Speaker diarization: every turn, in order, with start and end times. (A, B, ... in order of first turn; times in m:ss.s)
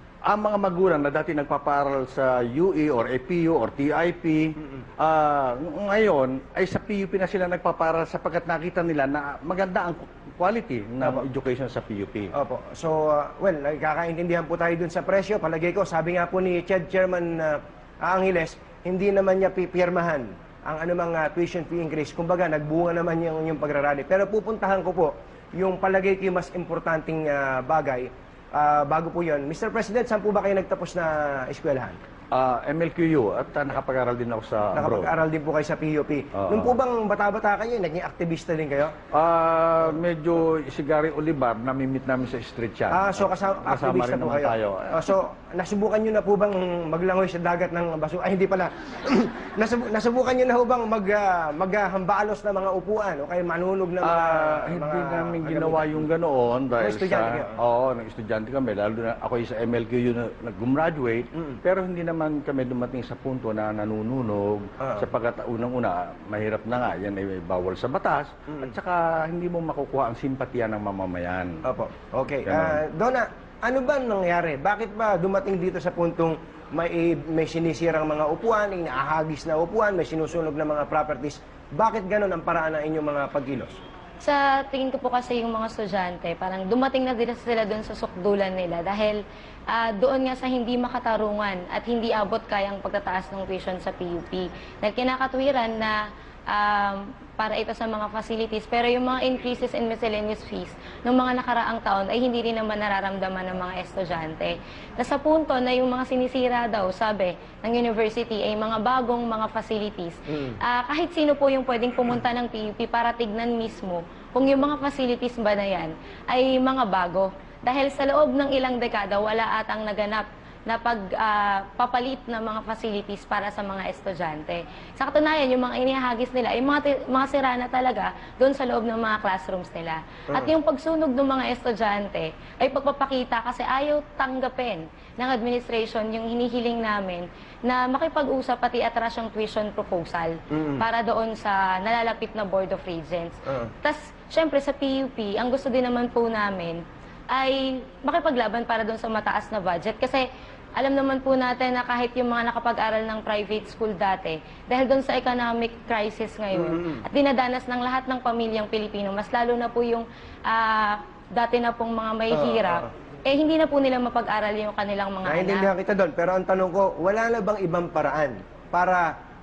0:00.3-0:12.3 A
0:12.3-0:32.0 B
0:32.3-0:35.1 A
0:34.7-0:39.0 B
0:36.3-0:36.7 A
0:39.1-0:45.0 A
0:42.9-0:56.0 B
0:54.0-1:11.6 A
0:56.8-0:57.6 B
1:04.8-1:05.1 B
1:11.6-1:23.8 B
1:12.4-1:12.8 A
1:24.2-1:29.2 C
1:29.7-1:36.0 C
1:36.5-2:26.8 C
2:20.5-2:20.8 B
2:23.4-2:23.7 B
2:27.3-2:30.2 C
2:30.8-2:45.7 C
2:36.5-2:37.0 B
2:42.3-2:42.9 B
2:45.2-2:49.1 B